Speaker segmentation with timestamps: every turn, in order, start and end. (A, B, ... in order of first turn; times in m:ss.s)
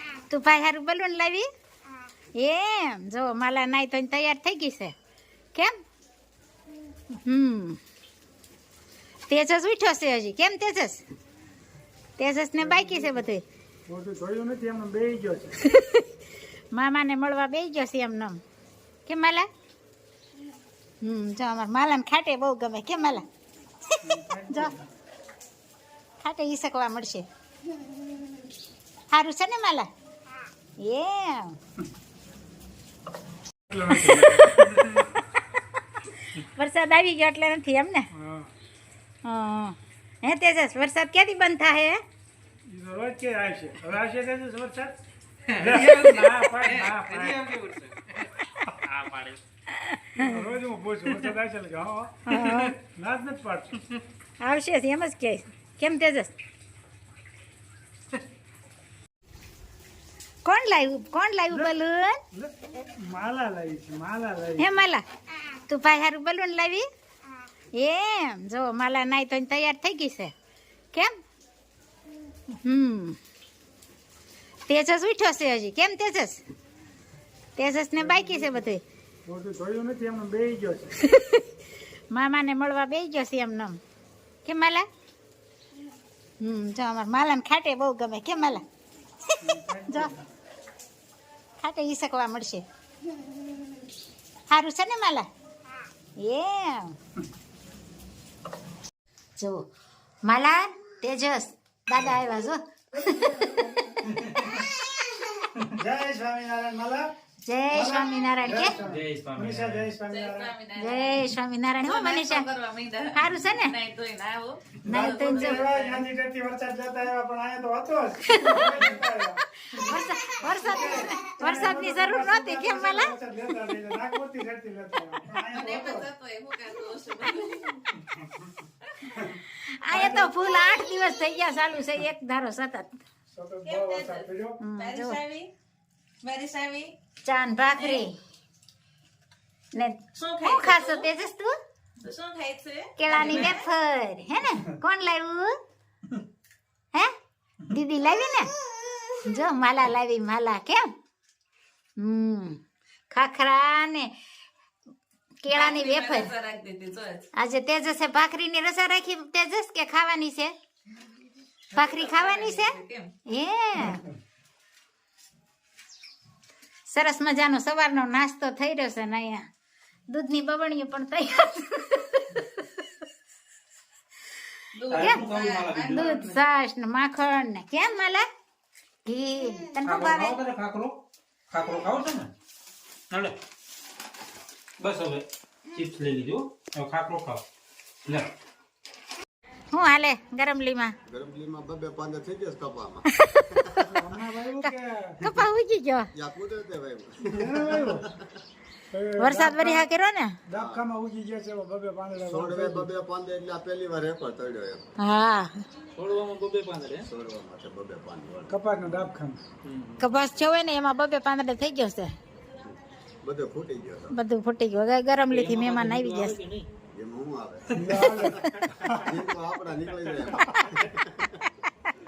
0:00.3-0:01.5 A
0:02.4-0:04.9 A
0:07.2-0:07.8 A
0:09.3-0:11.0 A
0:12.2-0:13.4 A
0:12.6-0:13.2 B
0:13.9-0:15.6 B
0:15.6-0:16.0 A
0:16.7-0:18.4 A
0:19.1-0:19.5 A
0:21.0-0:23.2 A
0:23.9-0:24.7 A
0:24.0-0:24.9 B
0:26.2-0:27.2 A
0:29.1-0:29.9 A
0:30.8-0:31.6 A
0:33.7-0:34.7 B
0:33.9-0:35.2 A
0:36.3-0:38.1 A
0:38.1-0:38.5 B
0:39.2-0:42.0 A
0:42.7-0:45.0 B
0:45.5-0:48.1 C
0:45.6-0:47.5 B
0:48.9-0:49.4 D
0:49.8-0:50.4 A
0:50.2-0:53.8 B
0:52.3-0:52.8 A
0:54.4-0:56.3 A
1:00.4-1:02.2 A
1:02.3-1:04.7 B
1:04.6-1:05.0 A
1:05.7-1:06.9 A
1:07.8-1:10.3 A
1:12.6-1:13.2 A
1:14.7-1:16.4 A
1:17.6-1:18.8 A
1:18.0-1:18.6 B
1:19.3-1:20.9 B
1:21.0-1:21.4 A
1:22.1-1:23.8 A
1:24.4-1:24.9 A
1:26.4-1:28.6 A
1:29.4-1:30.3 B
1:31.6-1:32.6 A
1:34.5-1:35.3 A
1:36.2-1:36.9 A
1:39.4-1:39.7 A
1:40.2-1:43.8 A
1:43.2-1:43.8 B
1:44.1-1:44.6 D
1:45.8-1:47.1 B
1:47.4-1:48.8 A
1:47.7-1:50.5 B
1:48.8-1:49.9 D
1:50.1-1:51.3 C
1:50.8-1:52.5 A
1:51.8-1:56.0 C
1:53.1-1:53.7 A
1:54.8-1:55.6 A
1:54.9-1:59.4 B
1:58.3-1:58.8 A
1:59.6-2:03.2 A
2:00.5-2:06.1 B
2:05.5-2:07.9 C
2:08.9-2:09.2 C
2:09.6-2:13.0 A
2:09.9-2:10.3 B
2:13.3-2:14.6 B
2:13.7-2:15.5 C
2:14.6-2:15.2 A
2:16.2-2:17.0 C
2:17.2-2:18.2 A
2:19.7-2:21.5 A
2:20.2-2:21.1 C
2:22.0-2:23.6 C
2:23.0-2:25.6 A
2:27.7-2:28.5 A
2:29.2-2:30.9 A
2:32.0-2:32.6 A
2:33.1-2:34.1 A
2:35.4-2:36.3 A
2:35.5-2:37.3 C
2:37.4-2:40.5 A
2:41.7-2:43.1 C
2:41.7-2:44.1 A
2:46.9-2:49.4 A
2:50.1-2:52.8 A
2:54.7-2:56.2 C
2:54.9-2:56.4 D
2:55.0-2:55.2 A
2:55.9-2:58.2 A
2:59.1-3:00.4 A
2:59.8-3:01.0 D
3:01.5-3:02.3 D
3:04.8-3:07.4 D
3:09.7-3:10.9 A
3:11.1-3:13.8 E
3:13.2-3:13.5 A
3:13.9-3:15.4 B
3:14.6-3:16.1 A
3:16.2-3:18.0 E
3:17.3-3:18.1 B
3:18.9-3:19.9 B
3:19.2-3:20.4 A
3:20.5-3:22.9 B
3:20.6-3:20.8 E
3:22.2-3:24.8 E
3:25.0-3:25.6 A
3:26.0-3:27.1 D
3:27.0-3:28.5 E
3:28.5-3:29.4 B
3:29.6-3:30.0 D
3:30.0-3:32.1 A
3:32.6-3:34.2 E
3:34.1-3:36.4 A
3:35.3-3:36.7 D
3:36.9-3:37.6 E
3:37.8-3:39.1 B
3:39.0-3:41.5 E